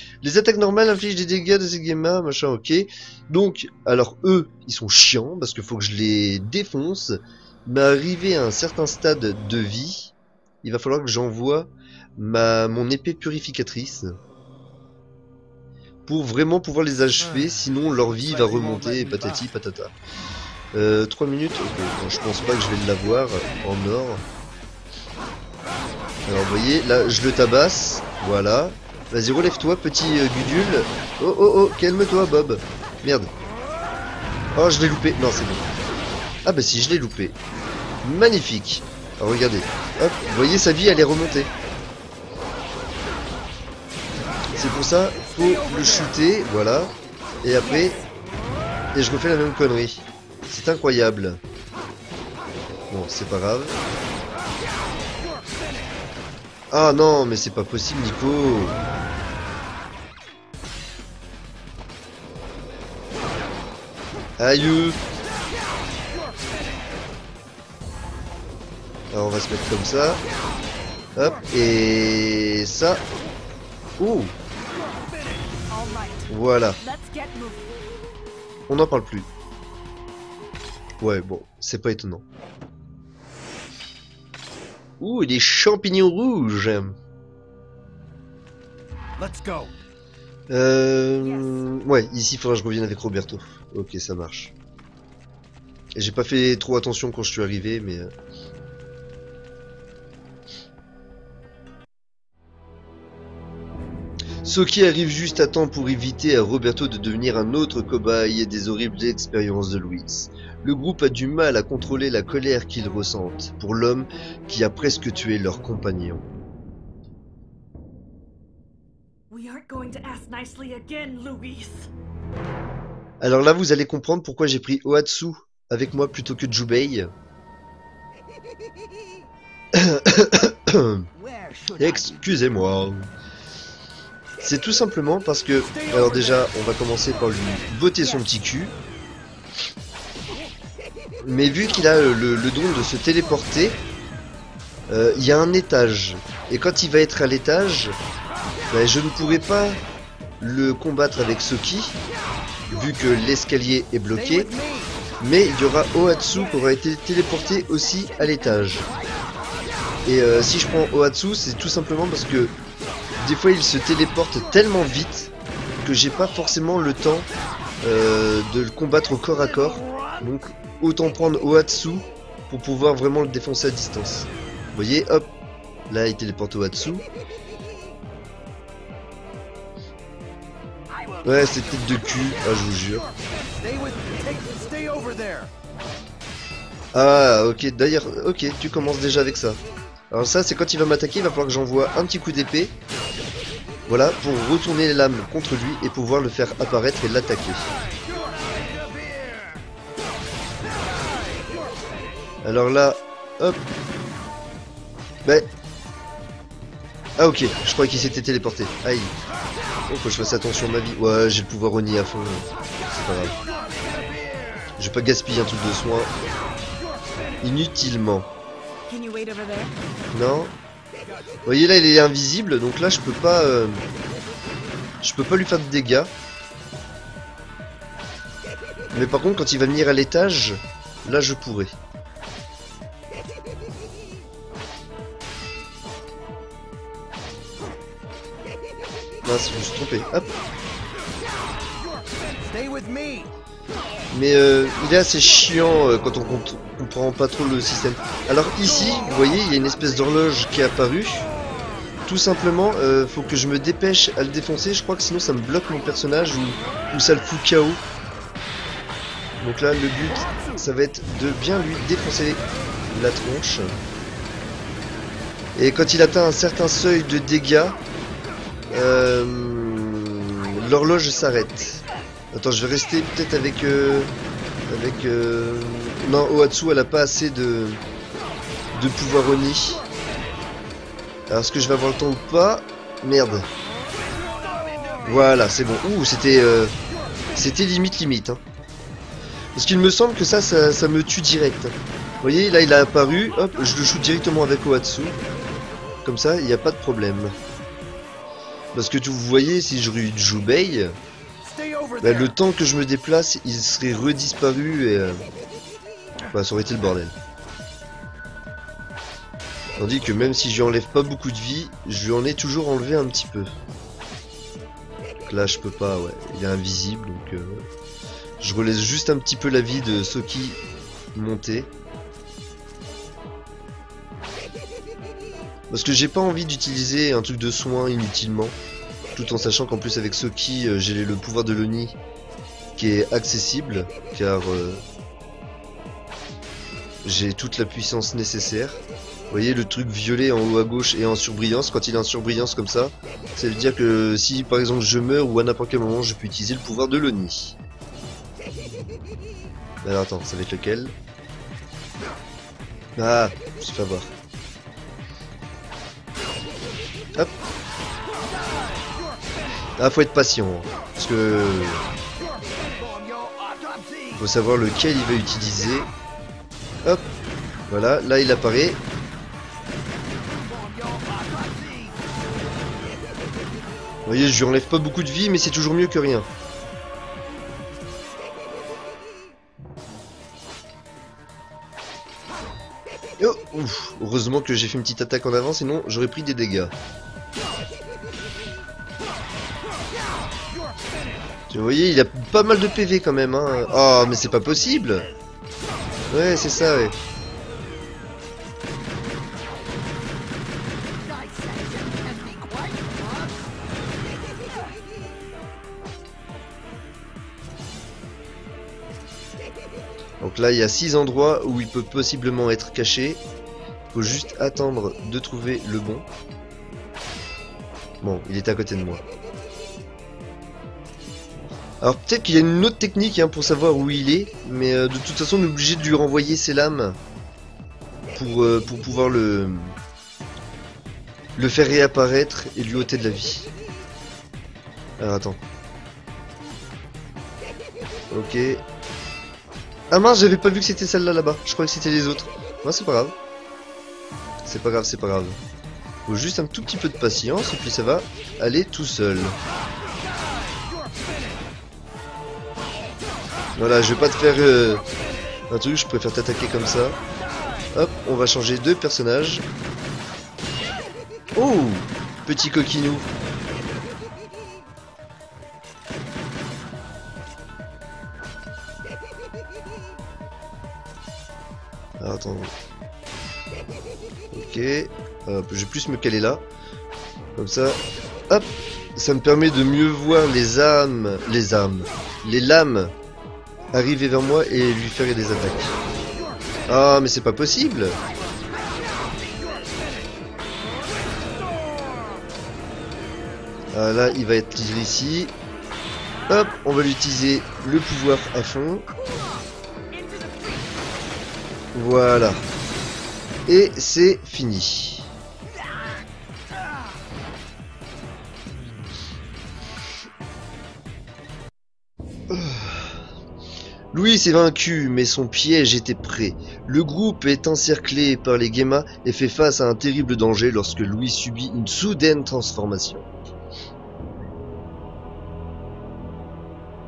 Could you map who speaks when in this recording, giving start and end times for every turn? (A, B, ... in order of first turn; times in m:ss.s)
0:00.2-0:14.2 A
0:16.1-0:19.9 A
0:17.2-0:19.5 B
0:20.7-0:24.2 A
0:26.3-0:33.3 A
0:34.6-0:35.7 A
0:36.4-0:37.4 A
0:38.0-0:41.5 A
0:44.6-0:48.0 A
0:45.3-0:46.1 B
0:49.0-0:51.4 A
0:52.9-0:53.8 A
0:56.7-0:58.8 A
1:04.4-1:05.0 A
1:09.1-1:10.2 A
1:11.2-1:13.0 A
1:14.0-1:14.4 A
1:15.1-1:17.8 C
1:16.3-1:16.8 A
1:18.7-1:19.3 A
1:21.0-1:22.2 A
1:25.0-1:27.0 A
1:29.2-1:29.7 B
1:30.5-1:34.5 A
1:36.0-1:38.1 A
1:44.4-1:56.2 A
1:59.3-2:01.9 C
2:03.2-2:07.1 A
2:09.8-2:11.1 A
2:11.1-2:12.4 B
2:11.8-2:13.1 A
2:14.4-2:18.7 A
2:15.6-2:16.5 B
2:21.2-2:23.8 A
2:24.9-2:28.0 A
2:28.7-2:29.8 A
2:30.4-2:32.0 A
2:32.7-2:34.5 A
2:34.1-2:35.0 B
2:35.2-2:38.9 A
2:37.3-2:39.0 C
2:40.0-2:42.6 A
2:43.2-2:45.3 A
2:45.8-2:47.3 A
2:47.8-2:55.3 A
2:49.8-2:50.1 B
2:55.9-2:57.0 A
3:01.2-3:01.9 B
3:01.2-3:03.1 A
3:03.6-3:05.5 B
3:06.9-3:09.6 A
3:10.1-3:12.7 A
3:13.9-3:17.6 A
3:18.4-3:19.4 B
3:22.4-3:23.6 A
3:25.2-3:25.5 A
3:27.2-3:29.1 A
3:29.9-3:33.4 A
3:33.5-3:34.0 B
3:34.8-3:36.1 A
3:37.4-3:38.3 A
3:38.9-3:39.8 C
3:40.1-3:40.5 A
3:41.5-3:43.8 A
3:45.0-3:46.1 A
3:48.9-3:51.7 A
3:59.2-4:00.3 A
4:02.4-4:03.3 B
4:04.1-4:11.3 A
4:12.0-4:17.8 A
4:19.4-4:22.4 A
4:22.9-4:23.8 A
4:25.6-4:27.8 A
4:28.7-4:34.1 A
4:34.7-4:37.8 A
4:38.7-4:39.8 A
4:41.3-4:43.5 A
4:45.0-4:46.7 A
4:47.4-4:48.4 A
4:49.6-4:55.2 A
4:56.0-4:57.4 A
4:58.8-5:01.0 A
5:01.4-5:02.4 B
5:02.0-5:05.3 A
5:06.3-5:07.2 A
5:09.8-5:13.5 A
5:15.3-5:17.6 A
5:18.4-5:20.6 A
5:21.2-5:21.7 A
5:25.7-5:28.6 A
5:29.2-5:32.0 A
5:32.8-5:34.8 A
5:37.0-5:47.6 A
5:49.8-5:50.9 A
5:53.0-5:54.1 A
5:59.8-6:01.8 A
6:02.8-6:04.2 B
6:04.2-6:05.9 A
6:07.7-6:08.8 A
6:10.3-6:12.0 B
6:14.1-6:16.3 A
6:23.2-6:26.7 A
6:31.5-6:35.1 A
6:36.1-6:37.0 A
6:41.0-6:43.5 B
6:50.2-6:53.2 A
6:53.9-6:56.0 A
6:58.0-6:59.0 A
7:01.8-7:07.0 A
7:08.2-7:09.8 A
7:11.4-7:13.5 A
7:15.0-7:15.4 A
7:18.1-7:18.6 A
7:19.9-7:23.1 A
7:24.4-7:25.4 A
7:26.1-7:29.4 A
7:33.6-7:34.8 A
7:35.5-7:37.0 A
7:37.7-7:39.5 A
7:41.4-7:43.1 A
7:52.0-7:52.5 A
7:54.3-7:56.4 A
7:57.4-8:02.9 A
8:03.7-8:05.7 A
8:06.7-8:08.0 A
8:09.2-8:09.6 B
8:13.7-8:15.3 A
8:16.3-8:18.9 A
8:19.0-8:20.7 C
8:21.7-8:22.4 A
8:23.5-8:25.1 A
8:32.3-8:33.0 A
8:33.9-8:43.1 A